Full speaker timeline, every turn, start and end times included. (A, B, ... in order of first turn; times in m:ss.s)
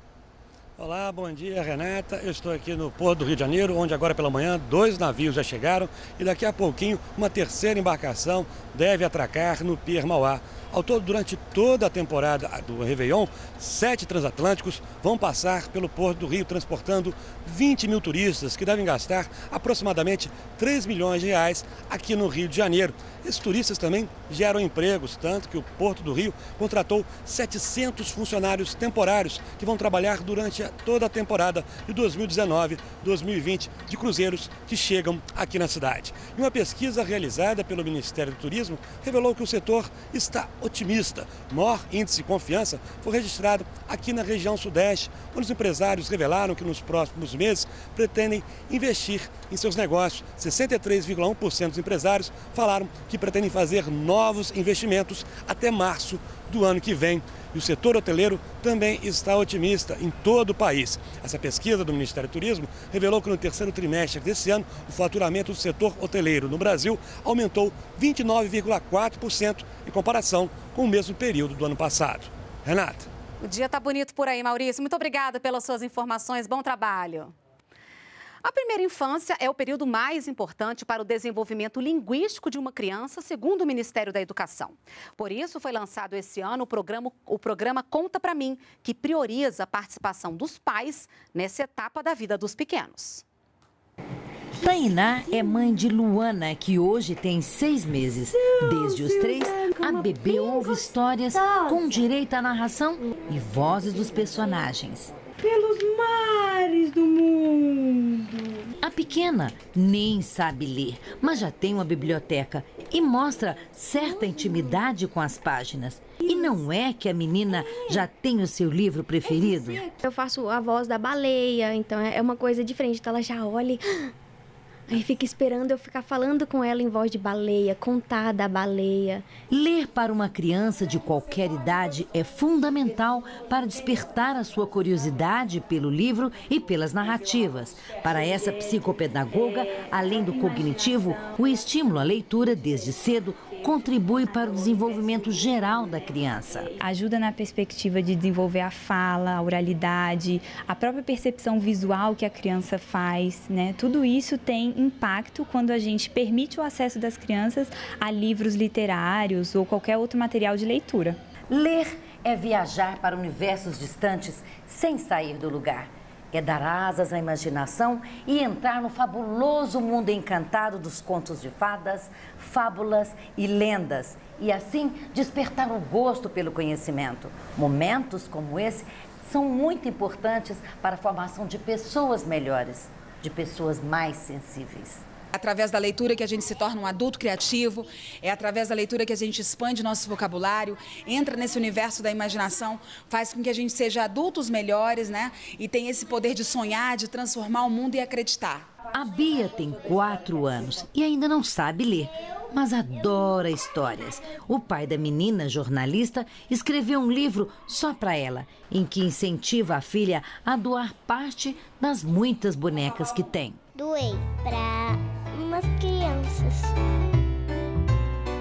0:00.8-1:13.1 A
1:13.4-1:17.3 B
1:18.4-1:33.2 B
1:34.6-1:45.1 C
1:48.8-1:59.9 C
1:59.6-2:04.1 D
2:04.9-2:09.3 D
2:09.5-2:26.7 C
2:26.8-2:41.2 E
2:41.5-3:05.0 C
3:05.3-3:18.6 F
3:18.9-3:33.6 C
3:33.8-3:36.7 G